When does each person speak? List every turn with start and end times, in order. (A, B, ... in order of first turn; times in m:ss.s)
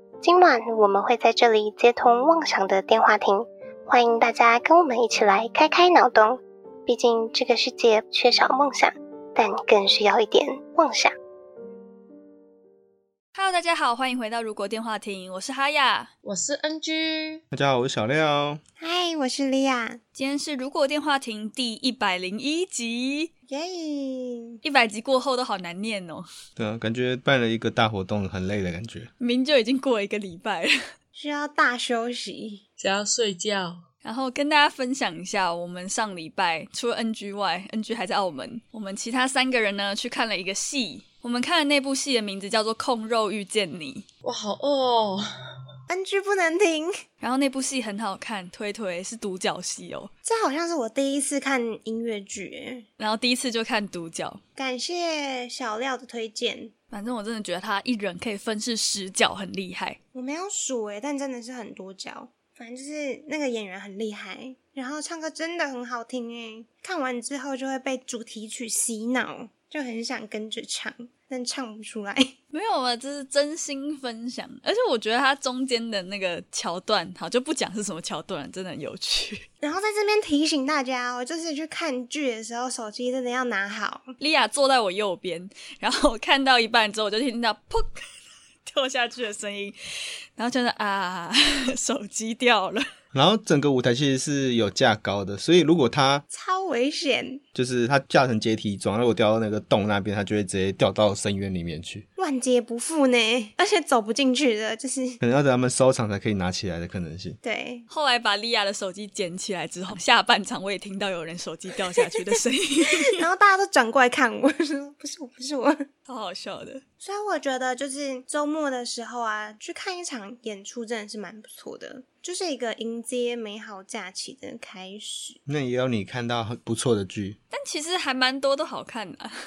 0:00.2-0:11.1 A
0:13.3-0:16.1 B
0:16.2-0:17.4 C
0:17.5-0:18.6 D
0:18.8-0:20.0 E
0:20.1-0:23.3 B
0:23.5-0:24.6 E
0:24.6-0:26.2 B
0:26.6-0:29.1 D
0:29.2-0:30.7 B
0:31.1-0:32.6 E
0:32.8-0:33.8 C
0:34.0-0:44.0 B
0:44.2-0:45.2 C
0:45.9-0:47.0 E
0:47.2-0:50.1 B
0:50.2-0:52.9 E
0:53.0-0:54.4 B
0:54.6-0:56.7 E
0:56.9-1:00.0 B
1:00.1-1:12.3 E
1:12.5-1:19.4 B
1:19.6-1:24.1 E
1:24.2-1:28.1 B
1:28.6-1:29.8 B
1:30.4-1:32.8 B
1:33.1-1:36.2 D
1:36.3-1:37.4 E
1:37.6-1:42.0 D
1:42.2-1:45.2 E
1:45.2-1:47.4 D
1:47.4-1:47.9 E
1:47.9-1:53.1 B
1:53.1-1:55.8 E
1:56.0-1:56.8 B
1:57.0-2:05.4 E
2:05.5-2:07.4 D
2:07.5-2:09.3 B